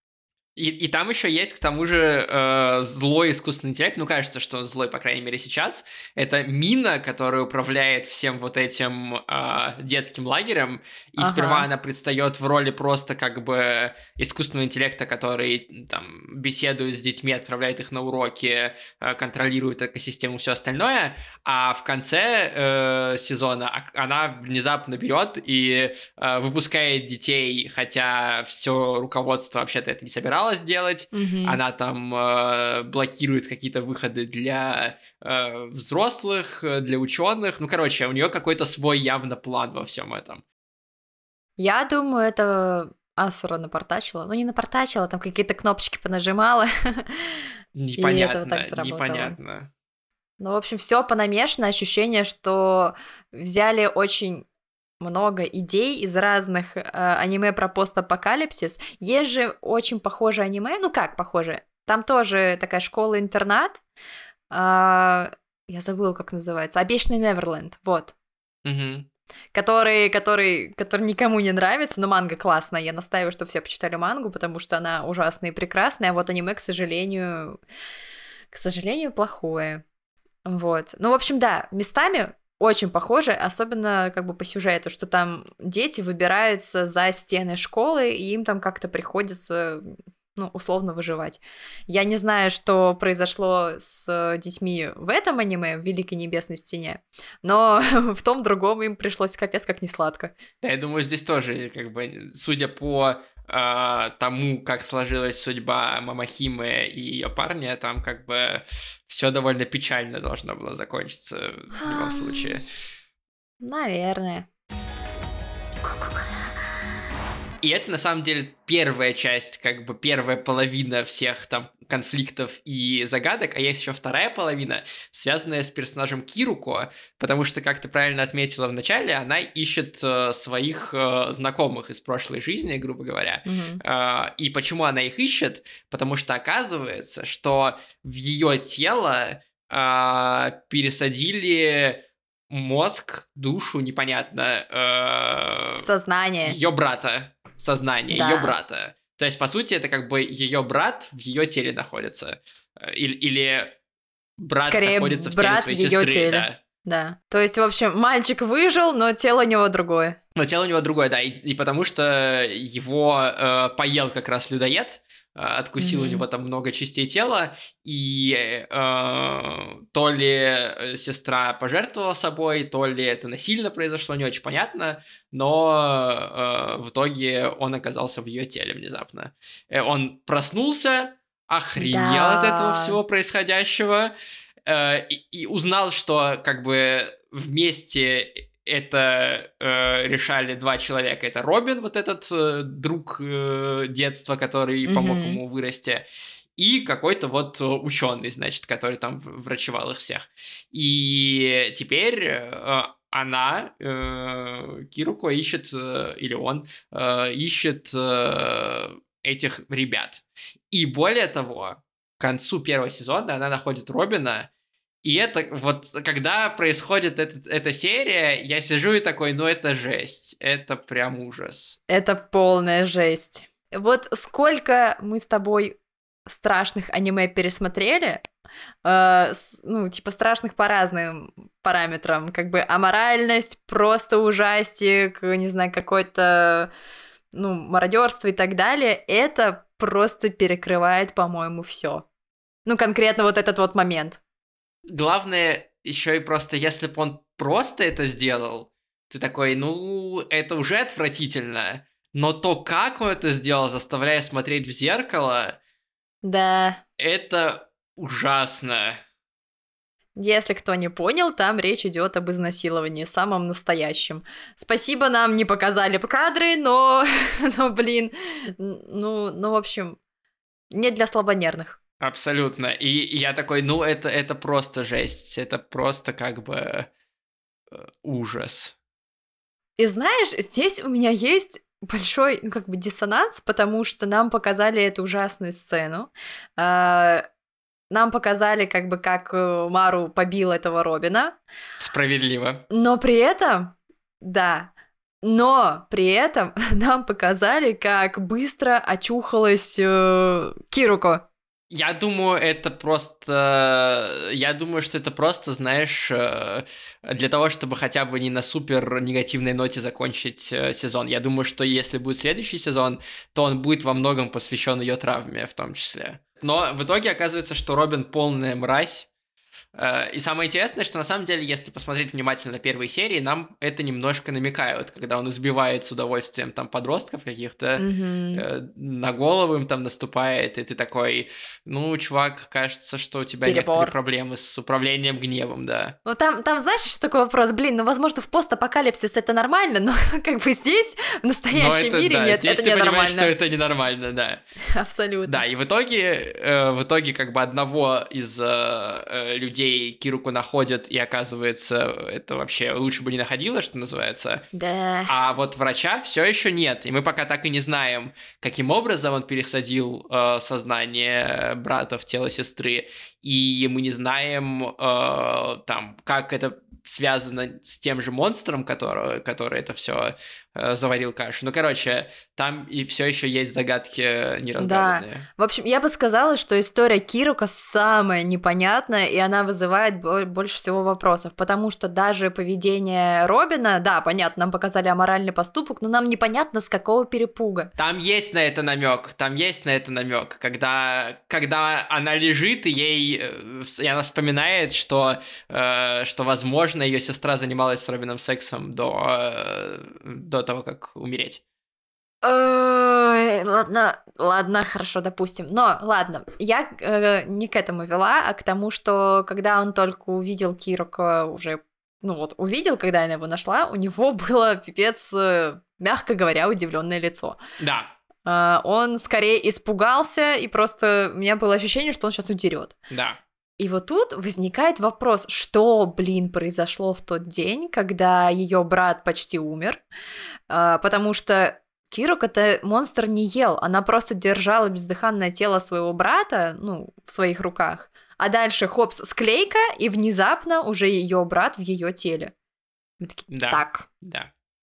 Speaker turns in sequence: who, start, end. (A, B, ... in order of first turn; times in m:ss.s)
0:00.6-0:40.4 A
0:11.2-0:11.7 B
0:31.1-0:31.6 B
0:41.6-0:47.5 B
0:47.8-0:49.7 A
0:48.0-0:49.4 B
0:50.4-0:54.4 B
0:55.0-1:03.8 B
1:04.5-1:08.1 B
1:08.6-1:09.1 A
1:09.5-1:17.6 B
1:18.5-1:19.8 B
1:20.4-1:40.3 B
1:40.6-1:52.6 A
1:51.8-1:52.5 B
1:53.6-1:54.5 B
1:57.6-2:25.8 A
2:13.4-2:13.8 B
2:25.8-2:26.6 B
2:26.4-2:33.7 A
2:28.1-2:28.5 B
2:34.4-2:36.6 A
2:34.6-2:40.2 B
2:40.4-3:04.1 A
2:45.8-2:46.2 B
3:01.8-3:03.0 B
3:04.6-3:16.0 A
3:14.8-3:15.4 B
3:16.6-3:34.5 A
3:35.0-3:41.8 A
3:41.9-3:48.2 B
3:48.8-3:56.7 B
3:57.3-4:02.0 B
4:02.6-4:04.2 B
4:04.9-4:15.6 A
4:16.2-4:16.8 B
4:17.0-4:19.0 A
4:20.2-4:30.0 B
4:30.7-4:31.8 B
4:32.0-4:36.9 A
4:37.7-4:38.7 A
4:39.8-4:47.3 B
4:47.9-4:51.4 B
4:51.8-4:52.6 A
4:52.7-4:54.7 B
4:55.2-5:01.2 B
5:01.7-5:19.1 A
5:19.7-5:36.0 A
5:27.8-5:28.4 B
5:33.4-5:33.9 B
5:36.0-5:43.3 B
5:41.5-5:44.4 A
5:44.7-5:45.4 B
5:45.2-5:54.4 A
5:54.5-5:55.2 B
5:55.1-6:15.2 A
6:14.6-6:27.7 B
6:27.8-6:41.4 A
6:42.2-6:57.4 B
6:57.6-6:57.9 A
6:58.2-7:02.7 B
7:02.9-7:03.2 A
7:03.6-7:09.8 B
7:10.5-7:22.3 B
7:23.0-7:23.9 B
7:23.3-7:24.3 A